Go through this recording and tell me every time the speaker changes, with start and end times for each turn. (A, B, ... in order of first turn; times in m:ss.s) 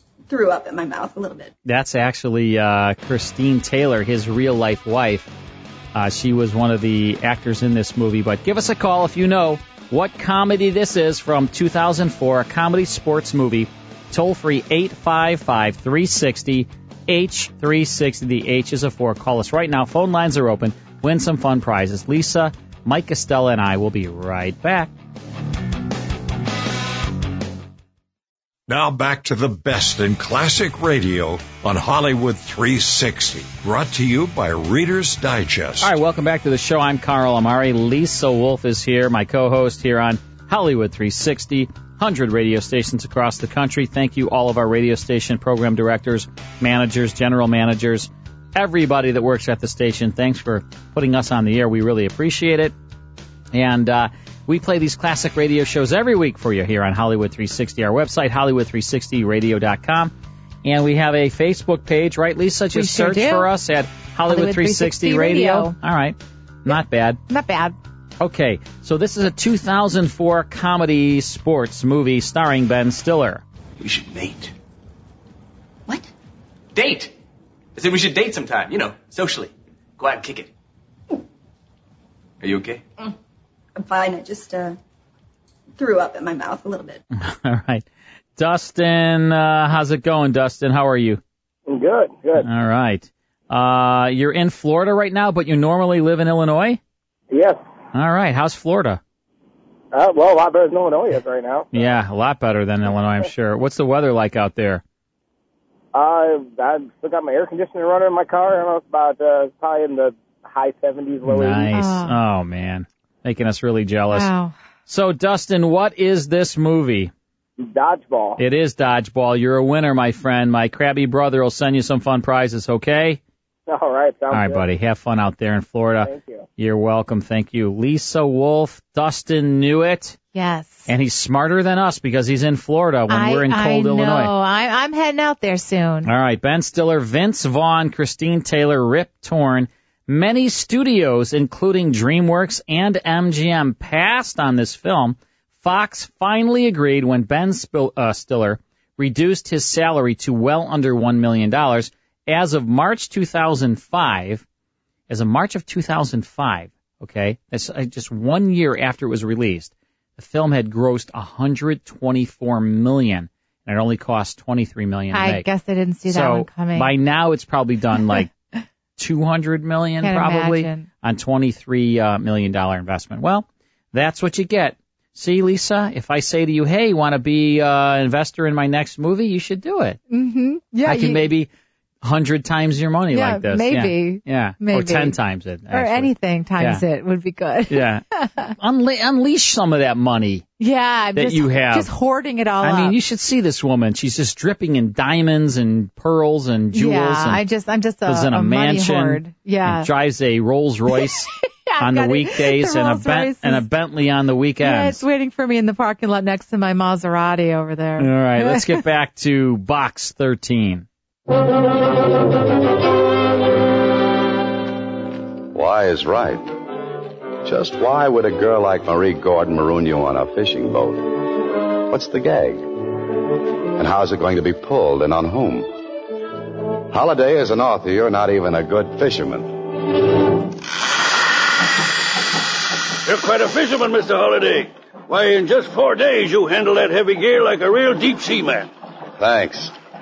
0:00.3-0:01.5 A
0:01.6-0:05.3 B
0:06.0-0:24.9 B
0:28.7-0:35.9 C
0:35.8-0:52.8 B
0:53.5-1:00.1 B
1:00.6-1:07.2 B
1:02.7-1:03.5 D
1:04.3-1:05.8 D
1:07.3-1:07.8 D
1:08.2-1:13.4 B
1:13.8-1:14.5 E
1:16.8-1:17.1 E
1:17.8-1:20.5 E
1:22.4-1:22.8 E
1:23.8-1:24.8 A
1:25.8-1:27.0 A
1:27.1-1:27.9 B
1:28.4-1:31.2 B
1:31.7-1:32.5 F
1:32.4-1:36.8 B
1:37.3-1:37.6 F
1:37.9-1:39.0 B
1:39.9-1:41.8 F
1:41.7-1:44.8 B
1:45.9-1:51.7 F
1:51.2-1:54.3 B
1:51.7-1:52.1 D
1:54.1-1:54.6 D
1:54.9-1:57.1 B
1:57.6-1:58.4 F
1:58.4-2:03.2 B
2:03.7-2:04.6 F
2:04.3-2:10.2 B
2:06.0-2:06.5 F
2:10.3-2:10.9 D
2:10.9-2:14.3 B
2:13.1-2:16.1 D
2:16.0-2:34.4 B
2:35.1-2:45.5 B
2:45.1-2:46.9 D
2:46.1-2:48.3 B
2:49.0-3:00.0 B
2:50.0-2:50.9 D
3:00.1-3:01.3 D
3:00.8-3:01.5 B
3:02.0-3:06.8 B
3:03.1-3:05.2 D
3:05.7-3:08.5 D
3:07.7-3:08.0 B
3:08.6-3:10.5 B
3:10.6-3:13.0 D
3:11.2-3:11.9 B
3:12.6-3:17.4 B
3:16.7-3:19.9 D
3:18.1-3:21.3 B
3:20.9-3:23.6 D
3:21.8-3:25.0 B
3:24.6-3:28.8 D
3:28.0-3:30.9 B
3:35.5-3:36.5 G
3:37.4-3:41.1 G
3:41.9-3:42.7 G
3:43.8-3:45.7 G
3:46.9-3:49.6 G
3:53.0-3:58.7 H
3:59.2-3:59.7 G